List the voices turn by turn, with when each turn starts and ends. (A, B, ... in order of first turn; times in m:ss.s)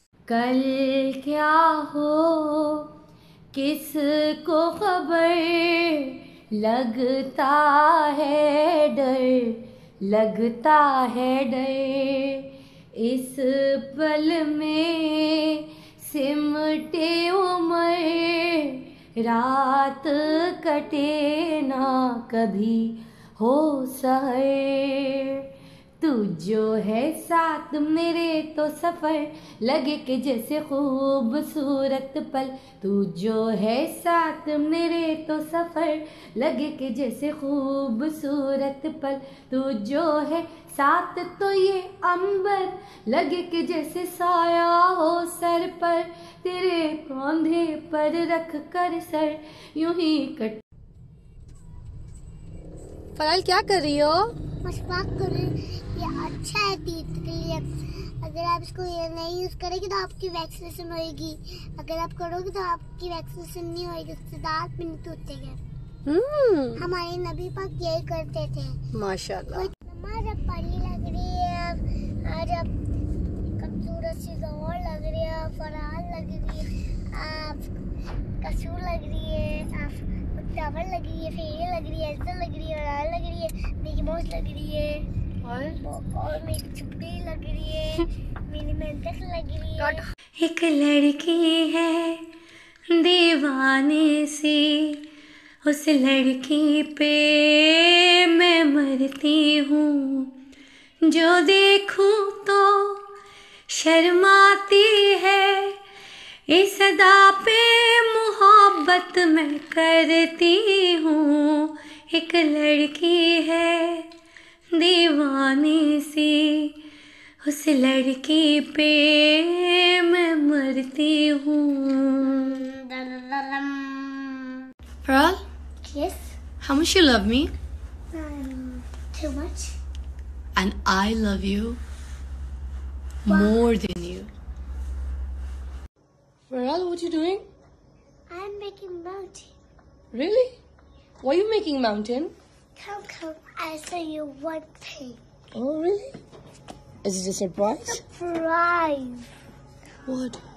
0:00.3-0:02.9 A
0:03.5-0:25.4 A
0:26.0-0:50.6 A
0:53.2-0:54.3 B
0:54.6-1:05.6 C
1:06.1-1:06.8 B
1:06.8-1:08.8 C
1:08.9-1:09.7 B
1:09.5-1:12.7 C
1:13.6-1:17.7 C
1:18.4-1:25.1 C
1:25.4-1:25.8 B
1:25.8-1:30.0 C
1:29.8-1:30.1 B
1:30.4-1:32.2 A
1:32.9-1:35.0 A
1:35.6-1:40.3 A
1:41.0-1:43.0 A
1:43.7-1:45.8 A
1:46.5-1:54.1 A
1:54.8-1:56.7 A
1:57.4-2:02.6 A
2:02.2-2:04.4 C
2:05.1-2:05.4 B
2:05.8-2:06.4 C
2:06.6-2:07.5 B
2:08.1-2:09.8 C
2:10.6-2:11.8 B
2:13.3-2:13.6 C
2:13.3-2:14.3 B
2:16.5-2:17.5 B
2:18.3-2:19.5 C
2:20.1-2:20.6 B
2:21.2-2:22.3 B
2:22.8-2:25.2 C
2:25.5-2:26.2 B
2:27.0-2:28.0 B
2:27.7-2:29.3 C
2:30.1-2:30.4 B